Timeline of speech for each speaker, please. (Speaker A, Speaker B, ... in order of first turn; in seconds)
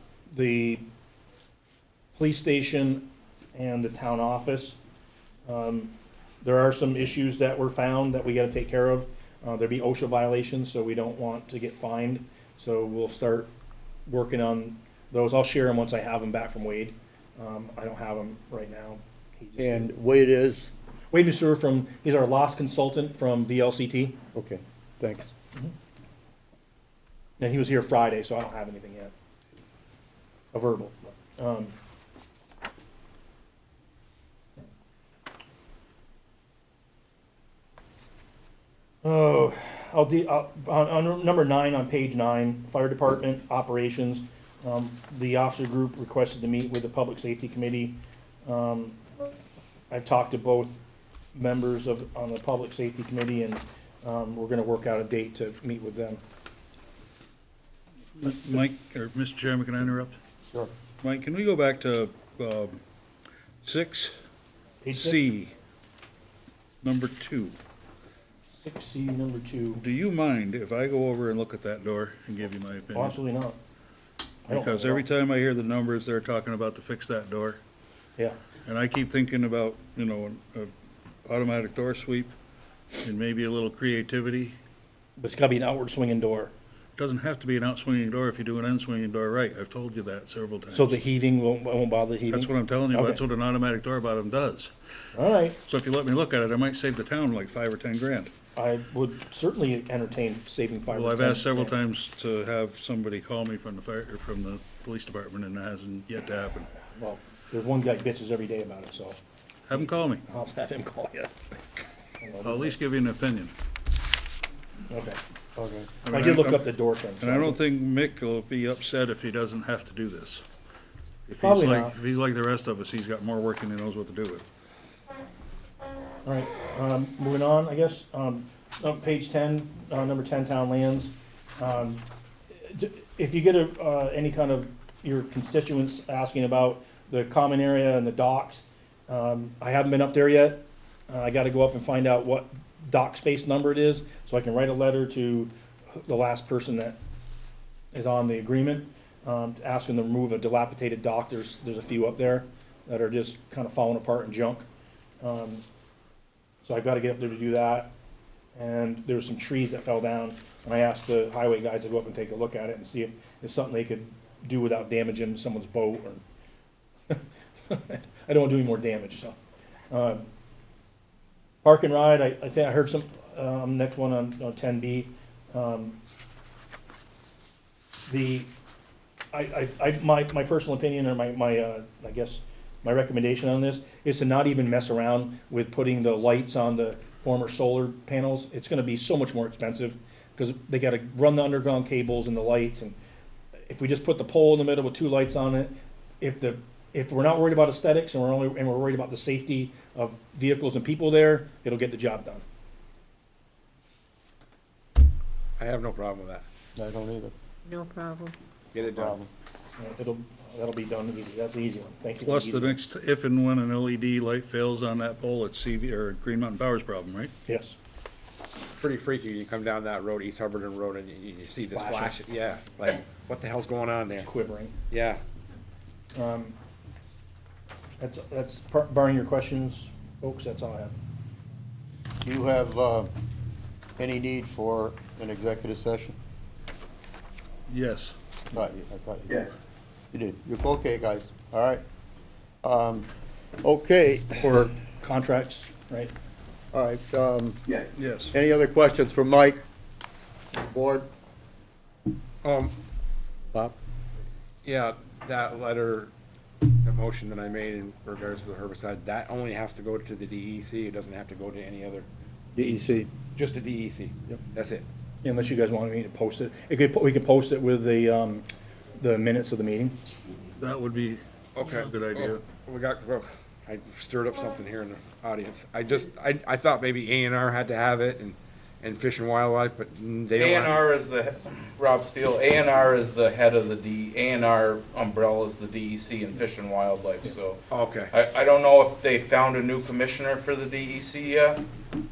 Speaker A: 0.3-0.8, 2.1-4.8, 5.5-13.5, 14.1-19.9, 21.1-24.2, 27.4-29.1, 30.5-31.7, 39.0-49.0, 49.9-50.8, 51.3-56.2, 64.8-65.2, 68.5-69.8, 72.9-73.6, 74.5-75.0, 85.2-86.5, 90.7-93.2, 95.1-95.5, 98.5-101.8, 106.9-109.2, 110.3-111.3, 112.2-112.7, 114.9-115.2, 116.1-117.6, 121.4-121.9, 126.2-132.0, 132.5-147.0, 147.9-154.6, 155.2-155.6, 156.6-157.9, 158.5-166.2, 167.1-169.4, 169.9-170.3, 171.6-176.0, 178.1-178.5, 179.3-192.9, 193.7-202.4, 209.8-212.8, 217.5-217.8, 221.7-222.2, 224.2-224.7, 226.1-226.6, 228.0-231.0, 244.4-246.1, 265.2-268.4, 269.0-269.9
Speaker B: 19.6-20.7, 24.3-25.3, 115.6-115.9, 206.8-207.3, 208.8-209.3, 232.2-233.1, 234.0-236.2, 238.5-239.5, 240.1-241.8, 242.6-243.1, 243.6-244.4, 246.7-249.6, 250.5-251.1, 262.5-263.1
Speaker C: 58.2-60.2, 61.0-62.8, 63.6-64.1, 64.9-65.5, 66.8-67.5, 69.8-73.2, 74.5-77.6, 78.6-80.7, 81.2-82.3, 83.0-84.5, 87.0-91.0, 92.3-94.7, 95.6-98.3, 100.9-106.7, 109.7-110.2, 112.4-113.5, 116.0-120.4, 121.3-124.4, 212.2-217.3, 237.7-238.1, 247.9-248.3, 270.6-272.4
Speaker D: 205.6-206.4, 208.7-209.2, 218.7-224.3, 224.9-225.2, 252.4-252.7, 254.6-256.1, 256.8-262.1, 263.3-264.9, 271.6-280.9, 287.7-288.1
Speaker E: 207.7-208.3, 280.4-282.5, 289.2-290.7
Speaker F: 280.6-287.6, 288.2-291.6